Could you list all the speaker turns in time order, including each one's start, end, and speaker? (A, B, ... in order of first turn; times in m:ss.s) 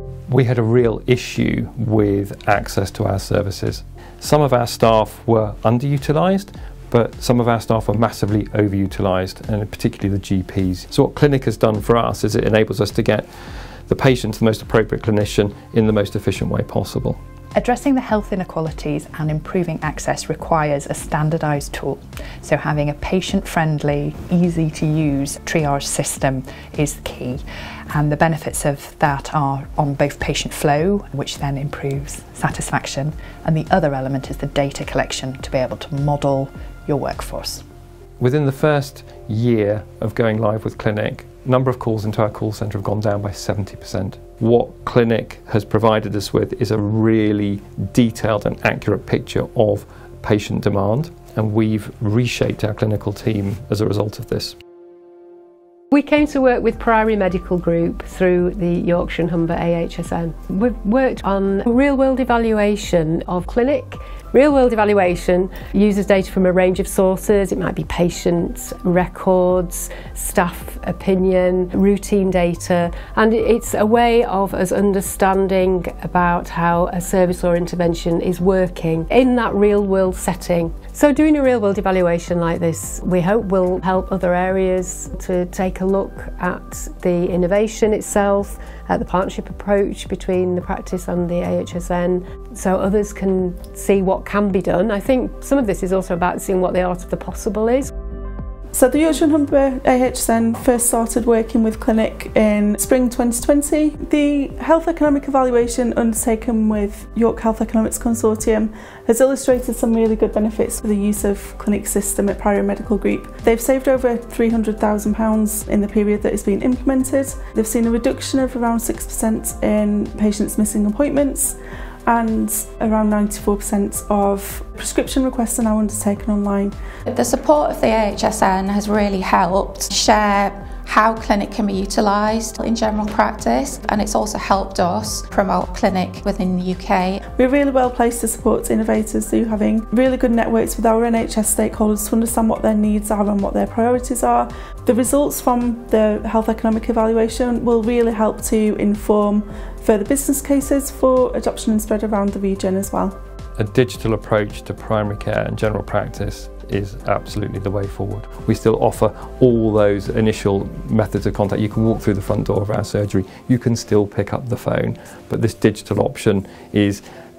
0:00.3-0:13.3 A
0:13.9-0:17.2 A
0:17.6-0:27.4 B
0:27.9-0:37.6 B
0:38.2-0:54.6 A
0:55.9-1:37.9 C
1:38.7-2:01.6 D
2:02.1-2:06.7 D
2:07.1-2:17.2 E
2:17.4-2:33.1 D
2:33.6-2:47.0 A